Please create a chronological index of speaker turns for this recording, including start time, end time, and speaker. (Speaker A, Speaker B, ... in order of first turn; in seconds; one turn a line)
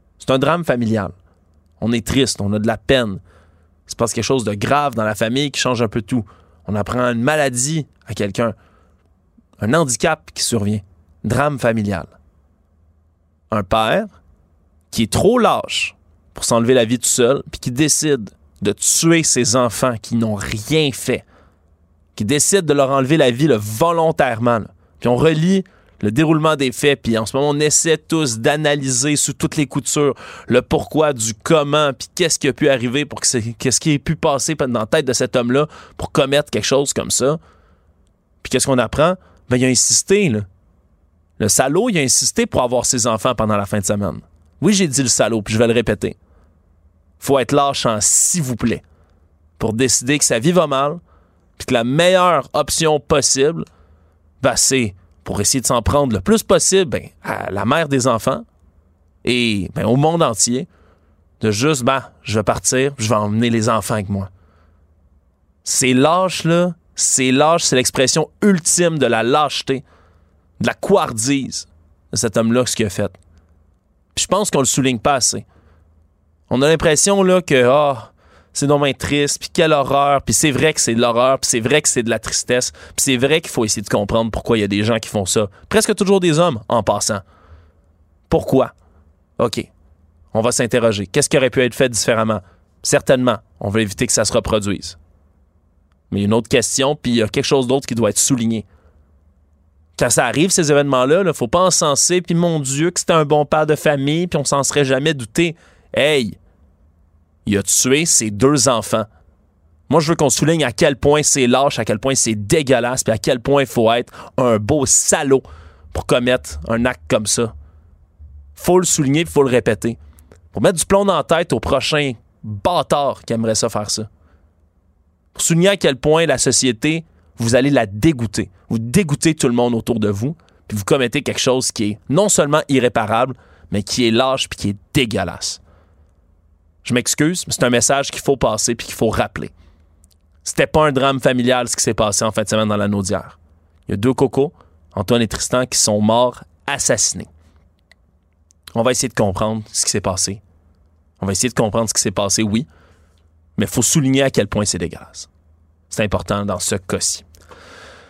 Speaker A: 0.2-1.1
Speaker A: 1.8-3.2
Speaker A: 3.9-8.6
Speaker A: 9.6-12.1
Speaker A: 13.5-14.1
Speaker A: 14.9-21.2
Speaker A: 22.2-37.4
Speaker A: 38.4-40.5
Speaker A: 41.4-46.1
Speaker A: 47.2-48.8
Speaker A: 49.6-51.0
Speaker A: 51.6-53.7
Speaker A: 54.4-58.5
Speaker A: 59.2-60.7
Speaker A: 61.4-64.3
Speaker A: 65.7-69.8
Speaker A: 70.6-73.2
Speaker A: 74.2-75.5
Speaker A: 76.5-87.2
Speaker A: 88.3-88.7
Speaker A: 89.4-89.7
Speaker A: 90.3-95.0
Speaker A: 96.1-98.7
Speaker A: 100.0-106.4
Speaker A: 107.5-109.1
Speaker A: 109.9-117.5
Speaker A: 118.6-120.0
Speaker A: 120.5-124.1
Speaker A: 125.3-135.6
Speaker A: 136.8-139.5
Speaker A: 140.4-147.3
Speaker A: 148.8-150.4
Speaker A: 151.2-152.7
Speaker A: 153.6-155.3
Speaker A: 155.9-157.2